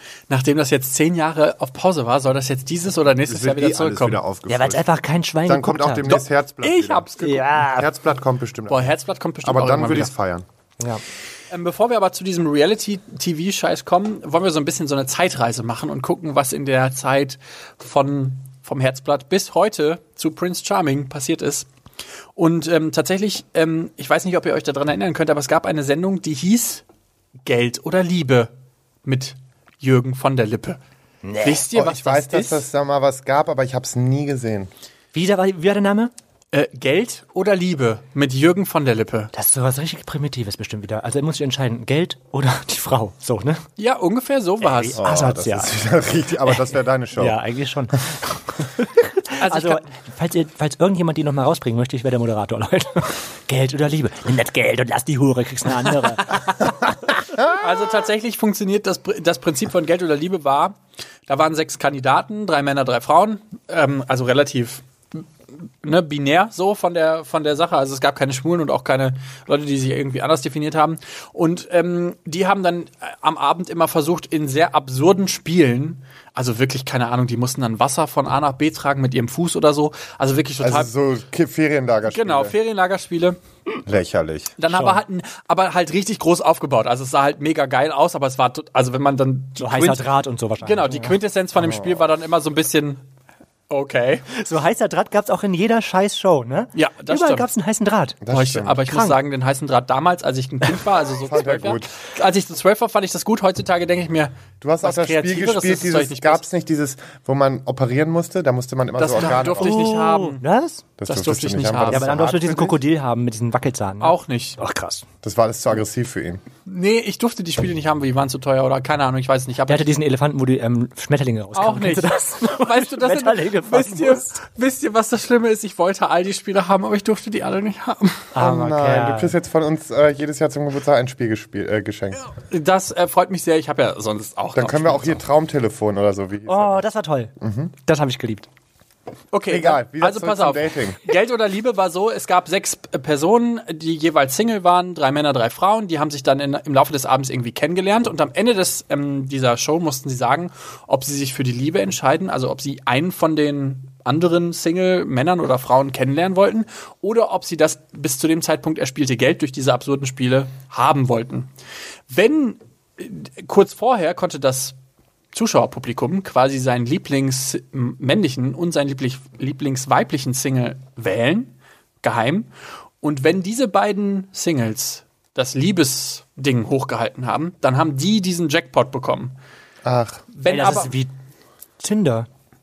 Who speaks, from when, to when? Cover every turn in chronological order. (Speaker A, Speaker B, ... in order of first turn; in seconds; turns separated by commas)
Speaker A: 0.3-4.2, Speaker B: 3.3-4.9, Speaker C: 4.5-6.1, Speaker B: 5.5-10.4, Speaker A: 6.1-7.6, Speaker C: 7.2-7.9, Speaker A: 8.7-10.1, Speaker A: 11.5-21.7, Speaker A: 22.4-26.8, Speaker A: 27.4-28.5, Speaker A: 29.1-30.8, Speaker C: 31.2-31.6, Speaker A: 31.4-32.6, Speaker B: 31.7-34.7, Speaker C: 35.1-36.1, Speaker A: 36.5-39.3, Speaker C: 39.3-43.6, Speaker A: 43.8-45.0, Speaker B: 44.9-47.4, Speaker C: 45.0-45.8, Speaker C: 47.2-56.9, Speaker A: 49.4-49.9, Speaker A: 57.4-60.8, Speaker A: 61.3-65.2, Speaker A: 65.8-80.9, Speaker B: 80.6-82.5, Speaker A: 82.1-83.4, Speaker B: 83.9-84.5, Speaker A: 84.6-90.1, Speaker C: 84.7-85.0, Speaker C: 89.6-91.2, Speaker A: 90.6-93.0, Speaker B: 91.6-92.0, Speaker A: 93.7-94.3, Speaker C: 94.3-98.2, Speaker A: 96.8-97.5, Speaker B: 98.2-98.8, Speaker A: 98.3-106.4, Speaker C: 98.9-99.2, Speaker B: 101.2-101.9, Speaker B: 104.6-109.9, Speaker A: 109.0-110.4, Speaker C: 109.5-110.8, Speaker B: 111.0-112.3, Speaker A: 111.1-112.8, Speaker C: 111.9-115.0, Speaker A: 114.0-114.6, Speaker B: 115.2-116.4, Speaker A: 116.7-119.9, Speaker C: 119.7-124.3, Speaker A: 121.5-128.3, Speaker C: 128.3-129.3, Speaker B: 128.4-132.2, Speaker A: 132.3-135.2, Speaker B: 134.6-136.9, Speaker C: 136.5-137.3, Speaker B: 137.4-137.7, Speaker C: 137.9-138.5, Speaker A: 139.3-161.5, Speaker B: 139.5-141.0, Speaker A: 162.1-164.8, Speaker A: 165.3-172.5, Speaker A: 173.0-179.3, Speaker B: 179.8-180.2, Speaker A: 180.3-180.9, Speaker C: 180.4-181.1, Speaker C: 181.8-182.3